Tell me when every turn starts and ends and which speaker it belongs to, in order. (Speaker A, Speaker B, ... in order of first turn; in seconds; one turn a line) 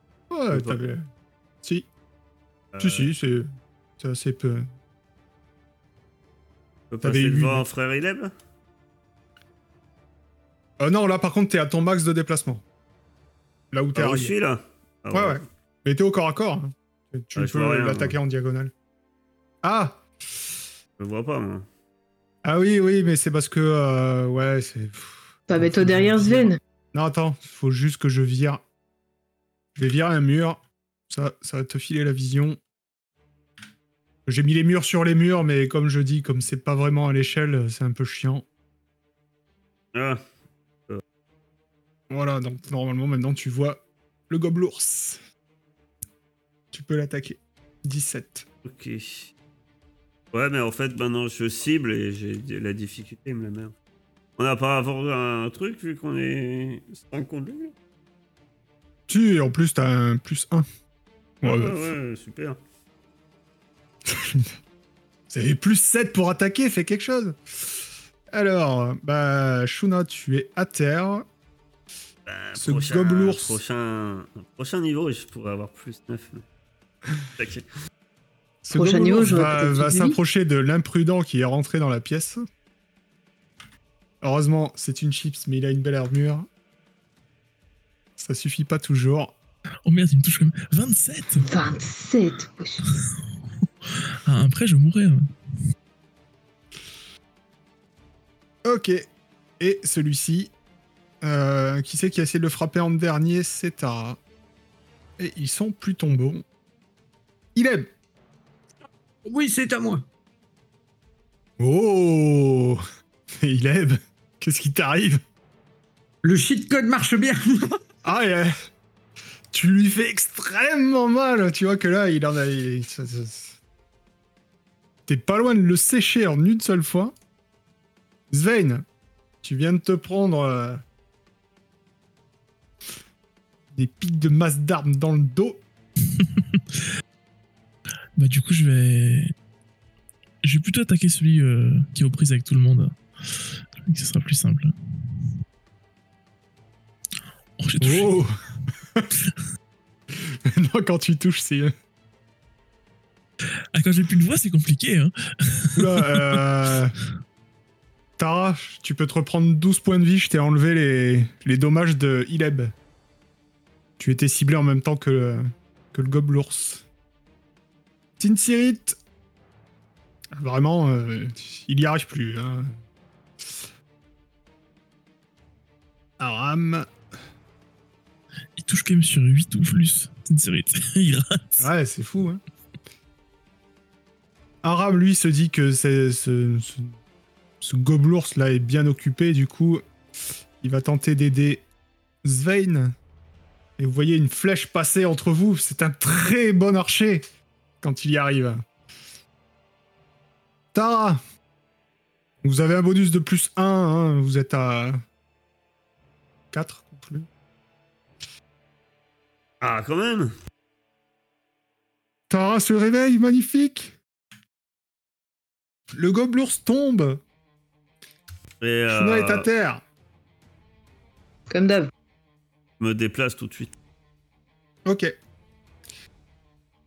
Speaker A: 0.3-1.1
Speaker B: 0.5-0.8
Speaker A: 1.6-1.9
Speaker B: 2.7-3.1
Speaker A: 2.8-3.5
Speaker A: 4.0-4.7
Speaker B: 6.9-8.3
Speaker A: 7.0-7.6
Speaker A: 10.8-12.6
Speaker A: 13.7-14.3
Speaker B: 13.9-15.4
Speaker A: 15.1-18.7
Speaker B: 17.4-18.1
Speaker A: 19.6-20.0
Speaker B: 21.0-21.6
Speaker A: 22.4-28.6
Speaker C: 25.5-26.6
Speaker A: 29.7-32.6
Speaker A: 34.2-38.5
Speaker B: 39.9-40.2
Speaker A: 42.1-45.2
Speaker A: 46.7-48.5
Speaker B: 48.6-49.3
Speaker B: 50.3-53.7
Speaker B: 54.4-57.7
Speaker A: 59.1-60.6
Speaker A: 61.4-61.9
Speaker B: 61.4-62.6
Speaker A: 64.0-64.5
Speaker A: 65.3-67.8
Speaker A: 68.3-71.3
Speaker B: 72.3-76.4
Speaker A: 72.5-73.6
Speaker B: 77.4-77.7
Speaker A: 78.6-82.4
Speaker C: 78.7-80.2
Speaker A: 84.2-86.5
Speaker A: 88.2-89.3
Speaker D: 89.8-91.4
Speaker C: 91.4-93.0
Speaker D: 94.2-95.3
Speaker A: 98.6-99.1
Speaker A: 99.6-100.5
Speaker A: 101.2-104.2
Speaker A: 105.2-106.4
Speaker A: 107.5-107.9
Speaker E: 109.2-110.0
Speaker A: 111.6-112.8
Speaker A: 113.4-115.2
Speaker E: 116.2-117.8
Speaker A: 118.0-118.5
Speaker A: 119.5-123.6
Speaker A: 125.1-127.1
Speaker A: 128.3-128.8
Speaker A: 129.4-130.8
Speaker A: 133.7-135.6
Speaker D: 136.2-136.6
Speaker D: 138.2-139.3
Speaker D: 140.4-143.0
Speaker D: 143.8-145.1
Speaker D: 147.6-148.2
Speaker A: 147.8-148.3
Speaker A: 150.1-151.7
Speaker D: 153.7-156.4
Speaker A: 155.8-156.9
Speaker A: 158.2-162.7
Speaker A: 164.0-166.8
Speaker A: 168.2-169.0
Speaker A: 170.3-172.7
Speaker A: 173.4-173.7
Speaker A: 176.2-176.9
Speaker D: 178.6-181.7
Speaker A: 181.6-182.4
Speaker A: 184.6-187.0
Speaker A: 187.6-189.8
Speaker A: 190.6-191.6
Speaker A: 192.2-192.9
Speaker A: 193.8-197.2
Speaker A: 197.8-198.6
Speaker A: 200.7-201.2
Speaker A: 202.4-205.0
Speaker A: 206.5-207.3
Speaker B: 209.6-210.3
Speaker A: 212.3-213.9
Speaker A: 215.9-217.2
Speaker B: 218.6-219.4
Speaker A: 218.9-219.8
Speaker C: 221.5-221.9
Speaker B: 222.8-223.7
Speaker A: 224.8-225.1